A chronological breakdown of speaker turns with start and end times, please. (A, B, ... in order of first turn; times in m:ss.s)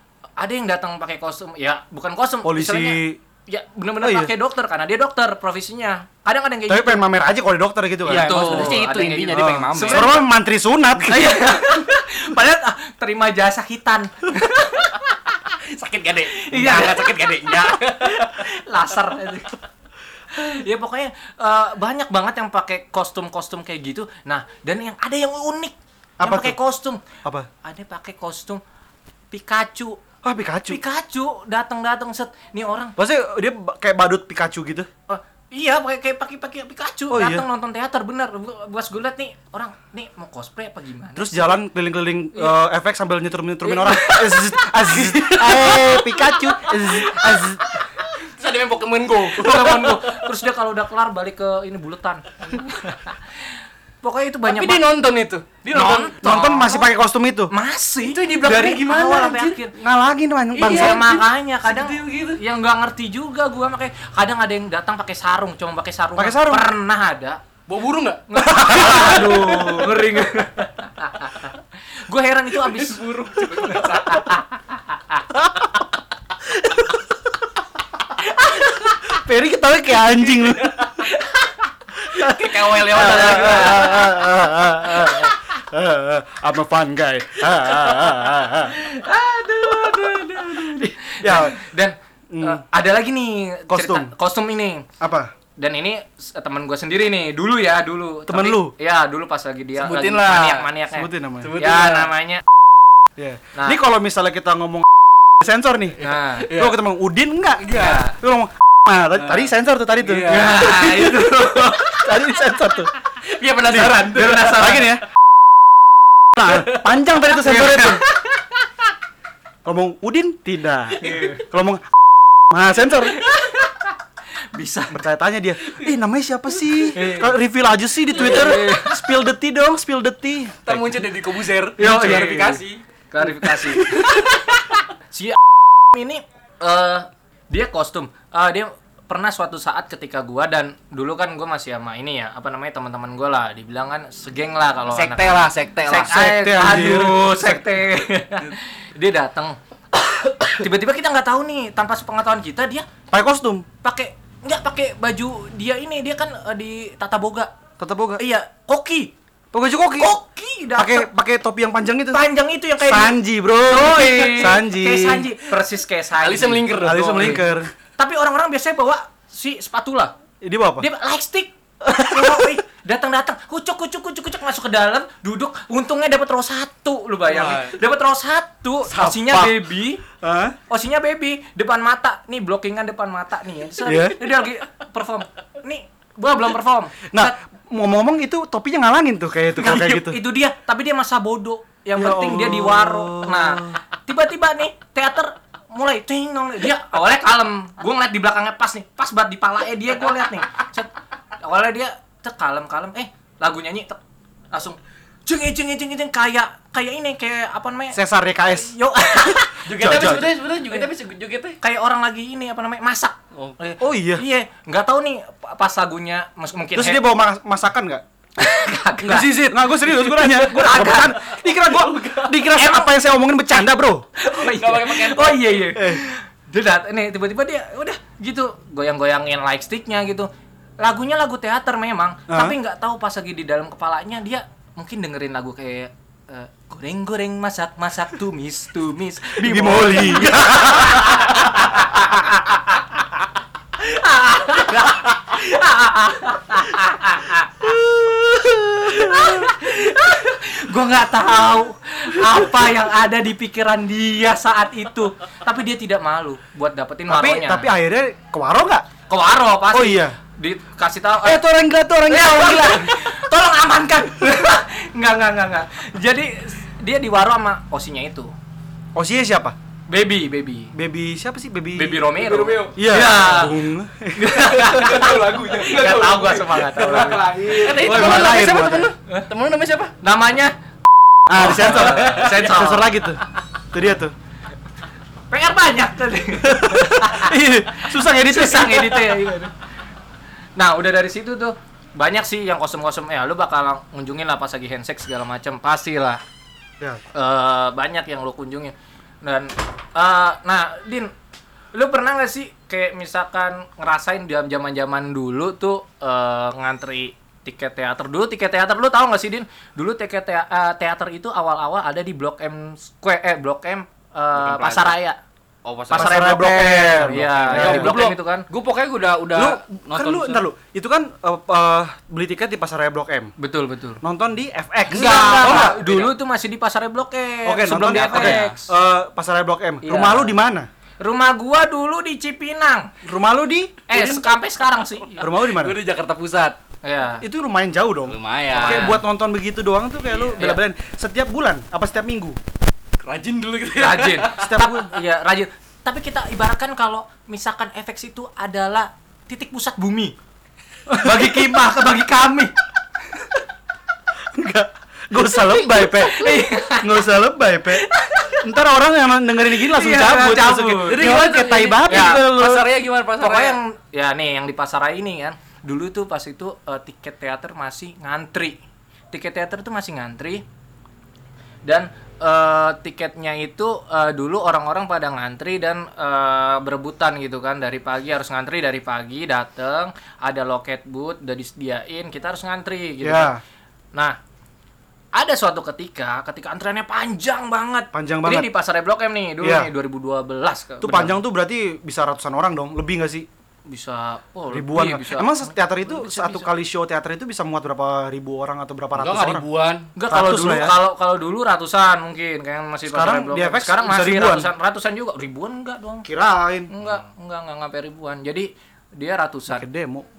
0:00.4-0:07.0 A
0:02.4-0:03.2 B
0:04.0-0:04.3 B
0:06.7-0:08.7 B
0:08.0-0:10.2 C
0:08.0-0:10.2 A
0:09.3-0:11.5 B
0:11.0-0:15.2 A
0:15.5-0:18.4 C
0:16.3-0:19.5 A
0:20.3-0:27.0 A
0:26.2-0:26.6 B
0:27.6-0:28.6 A
0:29.3-0:30.0 A
0:30.2-0:30.8 B
0:30.6-0:32.9 A
0:33.0-0:34.9 B
0:35.1-0:41.6 A
0:37.1-0:37.4 B
0:41.2-0:47.7 B
0:43.6-0:47.1 A
0:45.2-0:46.1 C
0:46.7-0:50.2 C
0:49.3-0:54.8 A
0:54.4-0:56.2 C
0:55.7-0:56.9 A
0:56.2-0:57.5 B
0:57.5-0:59.7 A
0:58.0-0:59.6 C
0:58.5-0:59.0 B
0:59.7-1:01.0 B
1:00.5-1:02.4 C
1:00.6-1:07.4 A
1:06.2-1:06.7 B
1:07.7-1:09.5 C
1:08.3-1:15.2 A
1:08.4-1:09.8 B
1:12.6-1:14.3 C
1:18.4-1:19.1 A
1:19.0-1:21.0 B
1:20.9-1:21.5 A
1:22.0-1:28.7 B
1:22.2-1:24.1 C
1:22.2-1:24.2 A
1:28.7-1:34.9 A
1:29.7-1:30.7 C
1:30.7-1:31.6 B
1:32.3-1:32.6 B
1:33.7-1:34.1 B
1:35.0-1:35.3 B
1:35.6-1:42.4 A
1:38.3-1:38.7 B
1:39.8-1:40.7 C
1:40.9-1:41.5 B
1:41.4-1:42.1 C
1:43.2-1:44.9 B
1:45.4-1:52.9 B
1:46.0-1:46.8 C
1:46.0-1:46.5 A
1:47.6-1:48.0 C
1:47.7-1:48.2 A
1:49.2-1:51.2 C
1:50.3-1:52.4 A
1:53.2-1:54.8 C
1:53.6-1:55.0 B
1:53.8-1:54.9 A
1:56.3-1:58.1 B
1:56.4-1:56.8 C
1:57.4-1:58.6 A
1:59.6-2:01.8 B
2:01.0-2:01.4 A
2:01.0-2:01.4 C
2:02.5-2:03.2 B
2:03.1-2:03.9 A
2:04.5-2:04.9 A
2:04.9-2:11.0 B
2:06.9-2:07.4 A
2:08.1-2:09.0 A
2:10.6-2:12.8 C
2:11.8-2:12.6 B
2:11.8-2:15.4 A
2:13.4-2:14.3 C
2:15.9-2:29.6 A
2:24.9-2:26.3 C
2:26.0-2:27.6 B
2:30.4-2:32.8 A
2:33.1-2:33.6 B
2:33.8-2:37.5 A
2:37.8-2:38.2 B
2:38.2-2:39.1 A
2:39.5-2:40.1 B
2:40.0-2:41.1 A
2:40.8-2:42.2 B
2:42.1-2:47.4 A
2:42.8-2:45.3 B
2:46.2-2:47.6 C
2:46.8-2:47.7 B
2:48.0-2:50.1 A
2:50.4-2:50.9 B
2:50.8-3:00.0 A
2:51.8-2:52.5 B
2:57.3-2:57.8 C
2:58.9-2:59.6 B
3:00.1-3:00.6 B
3:00.7-3:07.3 A
3:03.8-3:04.2 B
3:07.1-3:10.2 B
3:09.6-3:20.9 A
3:12.0-3:13.8 B
3:21.4-3:24.0 A
3:24.5-3:30.9 A
3:27.9-3:28.7 B
3:29.3-3:30.3 B
3:29.6-3:31.6 C
3:31.6-3:37.0 A
3:33.8-3:34.2 B
3:36.8-3:38.0 B
3:38.4-3:41.2 A
3:39.0-3:44.0 B
3:41.3-3:42.4 C
3:42.5-3:42.9 A
3:44.2-4:03.0 A
3:44.3-3:45.7 C
3:45.7-3:46.0 B
3:52.3-3:52.6 B
3:59.4-4:02.2 B
4:03.8-4:07.8 A
4:07.6-4:09.5 B
4:08.4-4:17.7 A
4:17.1-4:18.9 B
4:19.1-4:21.4 A
4:19.7-4:20.2 B
4:21.2-4:23.0 B
4:22.1-4:28.3 A
4:29.0-4:29.5 B
4:29.9-4:30.7 A
4:30.7-4:32.0 B
4:31.8-4:39.2 A
4:32.1-4:33.4 C
4:32.7-4:34.6 B
4:34.5-4:39.9 C
4:36.9-4:38.9 B
4:40.0-4:40.5 A
4:41.3-4:44.1 B
4:41.4-4:43.0 A
4:41.4-4:42.3 C
4:45.3-4:49.5 A
4:46.4-4:49.2 B
4:50.6-4:56.2 A
4:57.1-5:01.1 A
5:01.7-5:15.2 A
5:14.3-5:15.0 C
5:15.6-5:16.5 C
5:15.9-5:18.5 A
5:15.9-5:18.0 B
5:17.1-5:20.4 C
5:19.3-5:23.3 B
5:23.4-5:24.0 A
5:24.0-5:25.8 B
5:24.9-5:26.1 C
5:24.9-5:28.7 A
5:27.4-5:30.7 B
5:27.9-5:28.6 C
5:29.8-5:30.3 A
5:31.0-5:32.9 A
5:33.0-5:34.3 B
5:33.9-5:35.2 A
5:35.2-5:35.8 B
5:35.3-5:36.6 C
5:36.8-5:37.2 A
5:37.2-5:42.4 B
5:38.0-5:39.0 C
5:38.6-5:39.0 A
5:40.0-5:40.5 C
5:43.0-5:44.5 C
5:43.8-5:50.2 A
5:44.4-5:44.9 B
5:50.9-5:52.5 A
5:50.9-5:51.2 B
5:54.3-5:57.9 B
5:55.5-5:58.5 A
5:58.4-6:02.7 B
5:59.5-6:02.3 A
6:00.9-6:03.6 C
6:03.2-6:08.6 A
6:09.1-6:10.4 A
6:11.6-6:23.3 A
6:23.0-6:23.4 B
6:25.1-6:31.2 A
6:27.9-6:28.5 B
6:29.4-6:29.7 B
6:30.8-6:33.3 B
6:33.6-6:36.5 A
6:34.5-6:39.4 B
6:38.9-6:39.9 C
6:40.0-6:46.0 A
6:40.1-6:40.8 B
6:42.9-6:44.5 B
6:46.0-6:46.7 B
6:46.7-6:49.6 A
6:46.8-6:47.1 C
6:49.5-6:50.0 B